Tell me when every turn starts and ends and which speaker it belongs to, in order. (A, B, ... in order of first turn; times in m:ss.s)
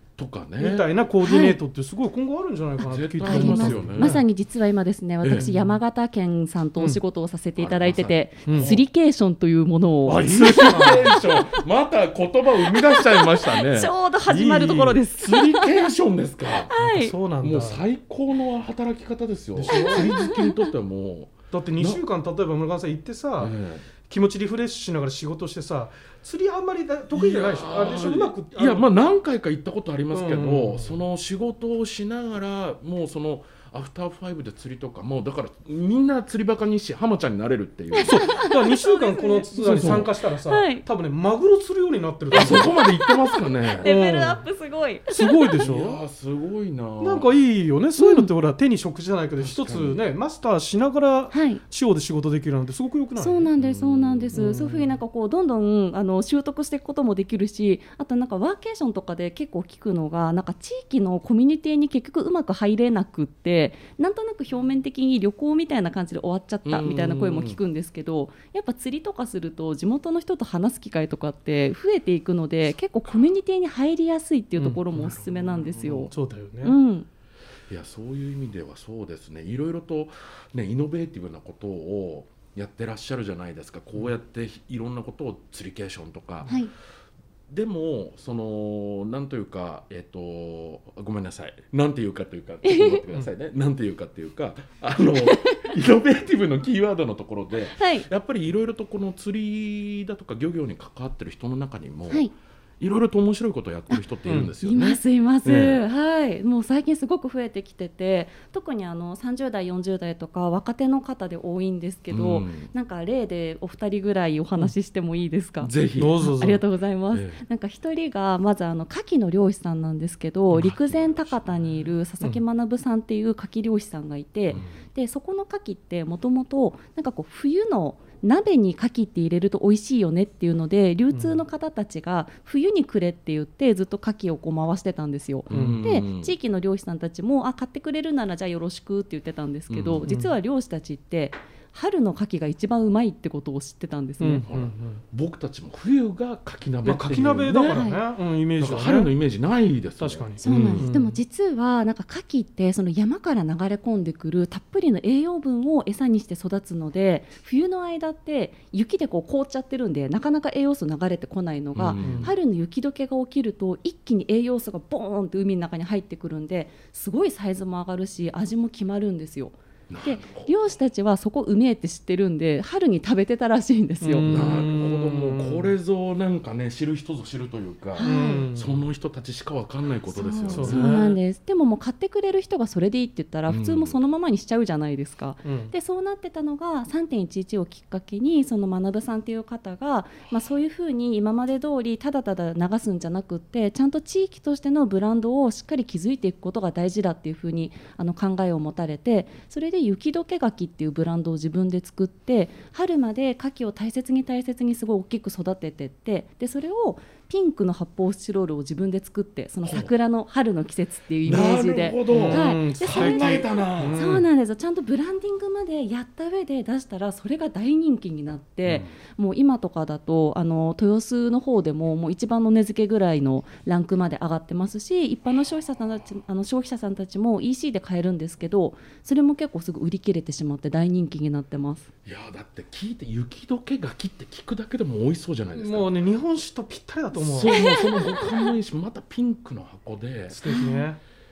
0:00.2-0:00.9 A
0:00.6-0:04.2 B
0:01.2-0:01.6 C
0:02.9-0:04.2 A
0:03.2-0:11.6 C
0:05.2-0:05.5 A
0:05.4-0:05.8 B
0:07.6-0:08.8 A
0:08.4-0:08.8 B
0:10.1-0:11.2 B
0:10.1-0:13.9 A
0:12.6-0:15.9 C
0:14.3-0:15.0 B
0:15.2-0:16.7 A
0:16.7-0:17.1 C
0:16.8-0:17.8 B
0:17.4-0:22.0 A
0:19.6-0:20.2 B
0:19.7-0:20.6 C
0:21.5-0:23.5 B
0:23.4-0:23.9 A
0:24.0-0:28.9 B
0:27.1-0:38.4 A
0:30.1-0:31.0 B
0:37.9-0:40.8 C
0:38.0-0:42.7 B
0:39.5-0:40.1 A
0:42.3-0:43.9 A
0:42.3-0:45.6 C
0:43.8-0:44.4 B
0:45.1-0:46.0 B
0:45.6-0:47.3 A
0:47.0-0:53.5 B
0:48.0-0:48.3 C
0:49.4-0:50.0 A
0:51.3-0:51.6 C
0:53.2-1:16.1 C
0:53.6-0:54.4 A
0:54.3-0:55.0 B
1:06.6-1:07.6 A
1:14.6-1:14.8 B
1:14.9-1:16.1 A
1:16.1-1:16.8 B
1:16.6-1:17.1 C
1:17.7-1:26.6 A
1:26.4-1:26.7 C
1:27.5-1:45.8 A
1:32.6-1:33.0 C
1:35.2-1:35.6 C
1:37.8-1:38.1 C
1:44.2-1:44.5 B
1:44.6-2:24.4 C
1:52.1-1:52.7 A
1:55.6-1:56.2 A
1:56.0-1:56.6 B
1:57.1-1:57.4 A
2:00.5-2:01.9 A
2:04.5-2:04.8 A
2:11.1-2:11.4 B
2:15.5-2:16.3 A
2:15.5-2:15.8 B
2:19.7-2:20.0 A
2:20.0-2:20.3 B
2:24.2-2:25.0 B
2:24.4-2:27.9 A
2:26.8-2:29.1 B
2:27.7-2:28.0 C
2:28.6-2:30.9 A
2:30.0-2:31.2 B
2:30.4-2:54.3 C
2:41.7-2:42.3 A
2:42.0-2:42.3 B
2:49.9-2:50.5 A
2:54.0-2:55.7 B
2:54.2-3:01.2 A
2:58.0-2:58.5 C
2:58.0-2:58.8 B
3:00.1-3:51.9 C
3:00.5-3:01.1 B
3:03.5-3:04.0 A
3:05.4-3:05.7 B
3:29.6-3:29.9 A
3:31.2-3:34.0 A
3:32.1-3:34.2 B
3:38.6-3:39.0 A
3:52.0-3:56.0 A
3:55.6-3:57.6 B
3:57.1-4:00.4 A
3:57.5-3:58.5 C
4:00.3-4:01.0 B
4:00.4-4:00.9 C